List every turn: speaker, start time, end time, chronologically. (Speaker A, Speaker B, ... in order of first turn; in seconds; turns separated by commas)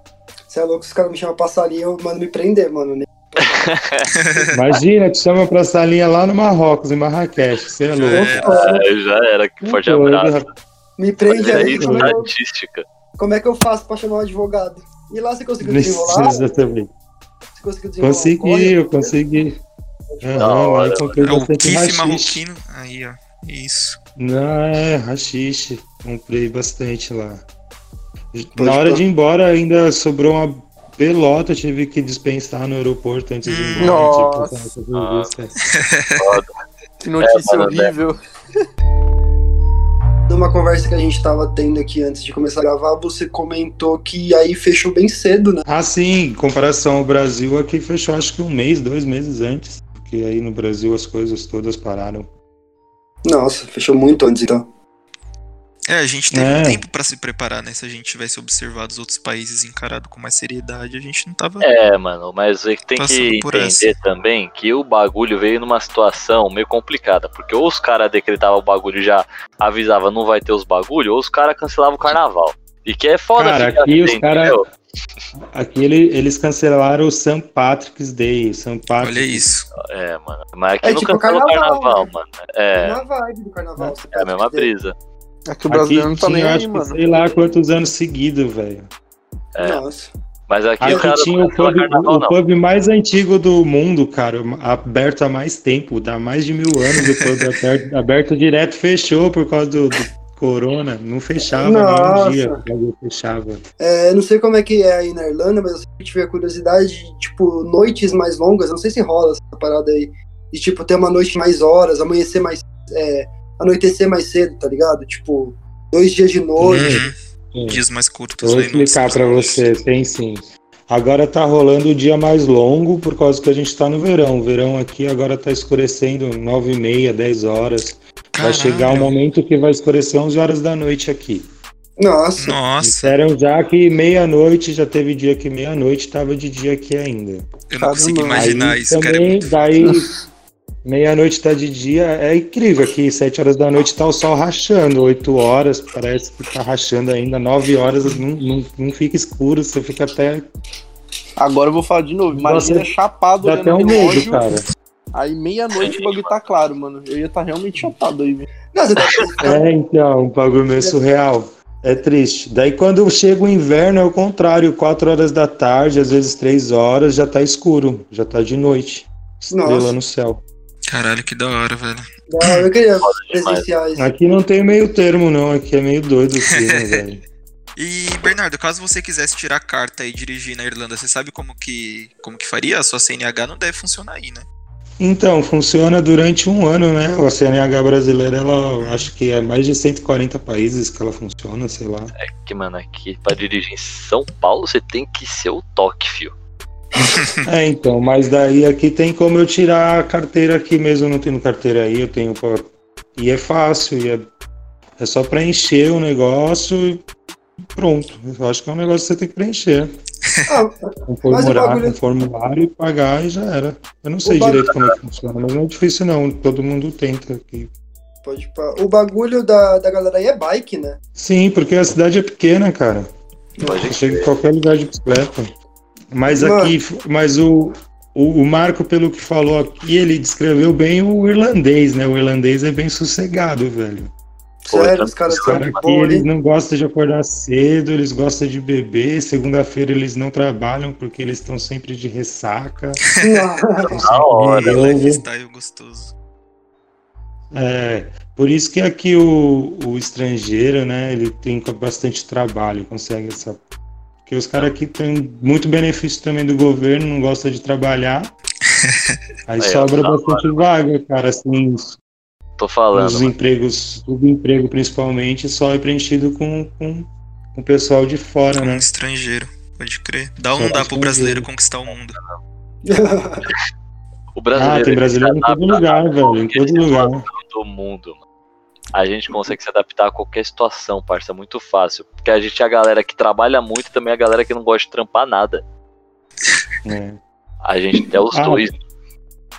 Speaker A: 0.5-3.5, Speaker B: 3.4-4.1, Speaker C: 4.1-4.5, Speaker D: 4.5-8.4, Speaker C: 7.9-8.5, Speaker A: 8.1-8.9, Speaker B: 8.4-10.5, Speaker D: 9.6-10.5, Speaker A: 11.0-12.3, Speaker B: 11.3-12.8, Speaker D: 11.5-12.2, Speaker A: 13.2-16.5, Speaker D: 15.6-16.9, Speaker A: 17.5-19.2, Speaker D: 18.0-19.6, Speaker A: 20.1-20.5, Speaker D: 20.2-22.4, Speaker B: 20.4-21.3, Speaker C: 21.2-24.0, Speaker D: 24.2-27.4, Speaker D: 28.3-35.5, Speaker A: 28.6-29.0, Speaker C: 33.4-34.1, Speaker E: 33.8-34.6, Speaker B: 34.9-35.3, Speaker C: 35.7-36.4, Speaker B: 36.2-36.5, Speaker E: 37.0-38.2, Speaker B: 37.2-37.9, Speaker A: 40.3-45.6, Speaker D: 45.6-52.3, Speaker A: 53.2-54.6, Speaker C: 55.9-61.7, Speaker D: 56.3-56.8, Speaker B: 61.6-74.7, Speaker C: 63.0-63.9, Speaker D: 73.3-74.6, Speaker D: 75.5-79.5, Speaker C: 79.0-79.7, Speaker B: 79.8-83.0, Speaker A: 80.8-82.1, Speaker A: 82.7-84.7, Speaker B: 84.1-84.9, Speaker E: 85.5-87.0, Speaker D: 85.7-88.9, Speaker B: 89.5-89.8, Speaker A: 89.6-90.1, Speaker B: 90.5-92.3, Speaker D: 90.8-103.6, Speaker A: 101.6-102.6, Speaker A: 103.8-117.0, Speaker D: 116.6-117.8, Speaker C: 116.7-117.2, Speaker C: 117.7-119.6, Speaker D: 118.4-131.5, Speaker C: 128.3-129.1, Speaker A: 132.0-132.6, Speaker C: 132.4-133.1, Speaker D: 132.8-137.5, Speaker C: 137.7-139.5, Speaker E: 137.8-138.4, Speaker D: 138.3-140.1, Speaker D: 140.8-150.5, Speaker E: 151.4-154.5, Speaker D: 152.3-154.6, Speaker E: 155.1-158.5, Speaker B: 155.7-156.3, Speaker A: 158.7-159.7, Speaker D: 159.4-170.4, Speaker A: 169.5-169.9, Speaker C: 170.9-172.7, Speaker A: 172.3-174.1, Speaker B: 173.0-173.7, Speaker D: 173.9-177.2, Speaker C: 176.5-177.0, Speaker C: 177.8-184.4, Speaker D: 185.0-192.1, Speaker B: 192.2-196.3, Speaker D: 197.4-204.2, Speaker D: 205.0-207.0, Speaker D: 207.7-209.9, Speaker A: 210.5-212.0, Speaker D: 211.1-217.7, Speaker A: 214.2-214.8, Speaker A: 218.2-221.0, Speaker D: 221.2-223.1, Speaker B: 223.6-224.3, Speaker D: 223.8-225.5, Speaker D: 226.1-234.1, Speaker A: 226.3-226.7, Speaker A: 234.6-236.2, Speaker B: 234.7-235.8, Speaker D: 235.3-243.0, Speaker A: 243.2-244.0, Speaker D: 243.9-245.2, Speaker B: 244.0-244.9, Speaker C: 244.5-246.1, Speaker D: 247.5-253.6, Speaker D: 254.2-258.3, Speaker C: 258.7-259.2, Speaker D: 259.5-262.0, Speaker B: 259.6-260.5, Speaker B: 262.6-263.3, Speaker D: 262.9-268.9, Speaker C: 268.6-272.2, Speaker D: 270.5-271.5, Speaker A: 272.8-273.5, Speaker B: 274.4-278.2, Speaker D: 274.5-277.2, Speaker B: 278.9-285.6, Speaker D: 286.8-287.2, Speaker B: 287.6-288.8, Speaker D: 288.3-288.7